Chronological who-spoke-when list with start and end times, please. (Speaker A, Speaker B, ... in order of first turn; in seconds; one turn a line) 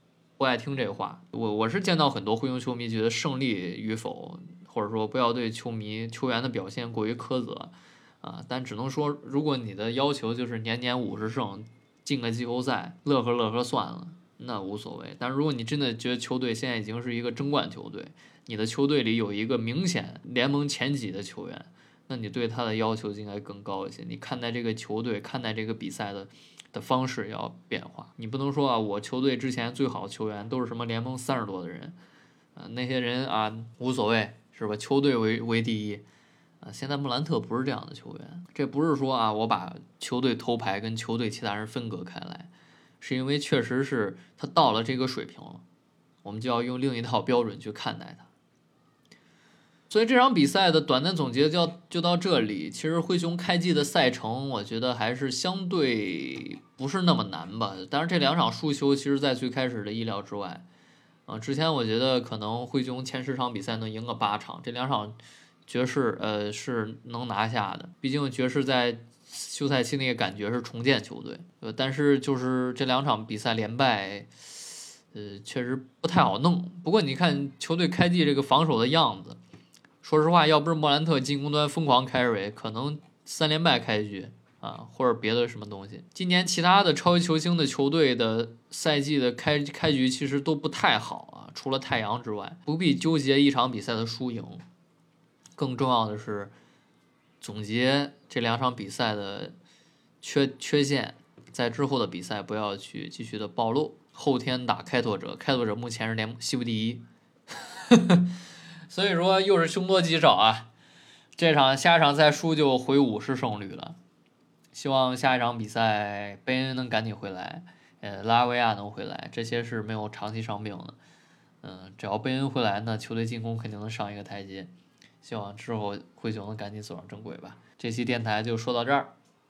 Speaker A: 0.4-32.0
Speaker A: 32.5-36.0
Speaker A: 36.6-45.6
Speaker A: 46.2-48.3
Speaker A: 49.9-60.6
Speaker A: 61.2-79.4
Speaker A: 80.0-94.6
Speaker A: 95.6-96.5
Speaker A: 97.4-99.5
Speaker A: 100.2-107.0
Speaker A: 107.6-108.4
Speaker A: 108.9-110.7
Speaker A: 111.3-114.0
Speaker A: 114.7-121.0
Speaker A: 121.6-129.1